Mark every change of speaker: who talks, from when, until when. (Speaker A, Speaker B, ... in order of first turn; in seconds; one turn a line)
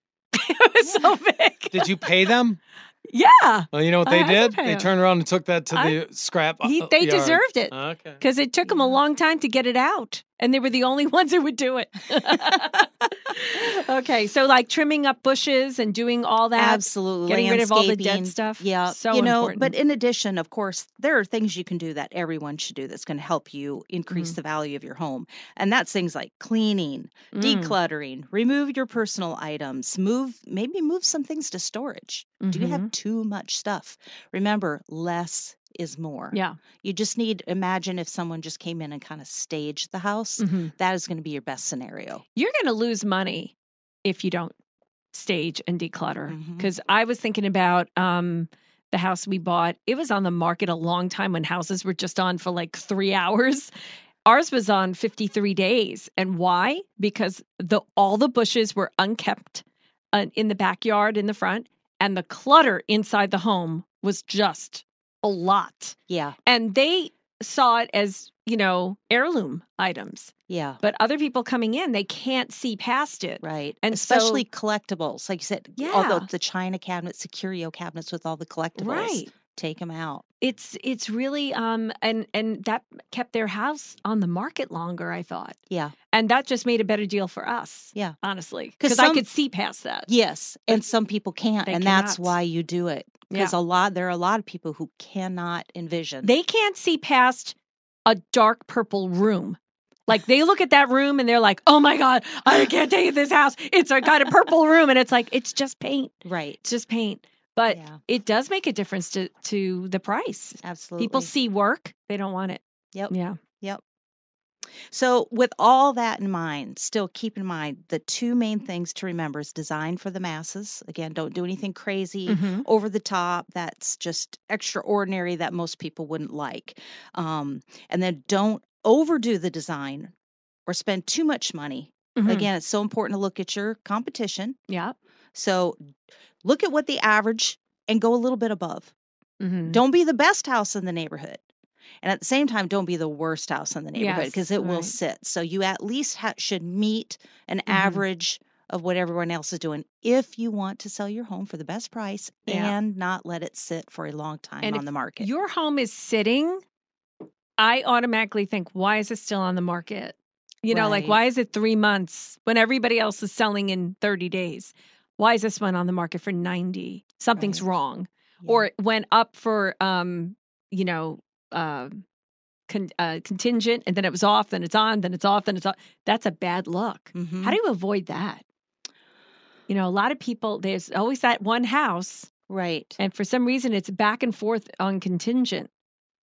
Speaker A: 0.3-2.0
Speaker B: 0.8-1.2
Speaker C: 1.7-2.6
Speaker A: 3.1-4.9
Speaker C: 3.7-8.2
Speaker A: 5.7-6.0
Speaker A: 6.6-19.7
Speaker B: 8.6-9.0
Speaker B: 12.2-12.8
Speaker B: 16.6-42.2
Speaker A: 24.1-24.4
Speaker A: 27.3-27.8
Speaker A: 32.4-32.9
Speaker A: 40.4-40.7
Speaker A: 42.4-44.5
Speaker A: 45.1-53.7
Speaker B: 46.3-46.7
Speaker A: 54.2-74.5
Speaker B: 66.1-66.4
Speaker B: 70.5-70.8
Speaker B: 73.4-80.2
Speaker A: 75.8-76.3
Speaker A: 78.8-79.3
Speaker A: 80.4-85.6
Speaker A: 86.1-90.1
Speaker B: 88.8-89.3
Speaker B: 90.1-96.3
Speaker A: 91.7-92.4
Speaker A: 96.2-97.5
Speaker A: 98.1-113.4
Speaker B: 106.2-106.7
Speaker B: 107.7-108.0
Speaker B: 110.6-111.3
Speaker B: 112.9-113.8
Speaker B: 114.9-130.1
Speaker A: 122.3-122.7
Speaker B: 130.7-134.6
Speaker A: 132.2-132.5
Speaker A: 134.7-135.0
Speaker B: 135.3-135.8
Speaker B: 136.4-138.9
Speaker A: 139.4-139.8
Speaker B: 139.7-141.4
Speaker B: 142.0-155.3
Speaker A: 144.0-145.0
Speaker A: 147.7-148.0
Speaker A: 152.5-152.8
Speaker A: 154.6-156.6
Speaker A: 157.6-172.0
Speaker B: 160.7-161.2
Speaker B: 167.4-167.7
Speaker B: 168.4-168.7
Speaker A: 172.7-178.4
Speaker B: 177.1-177.6
Speaker A: 179.7-182.3
Speaker B: 182.5-183.0
Speaker A: 183.0-185.7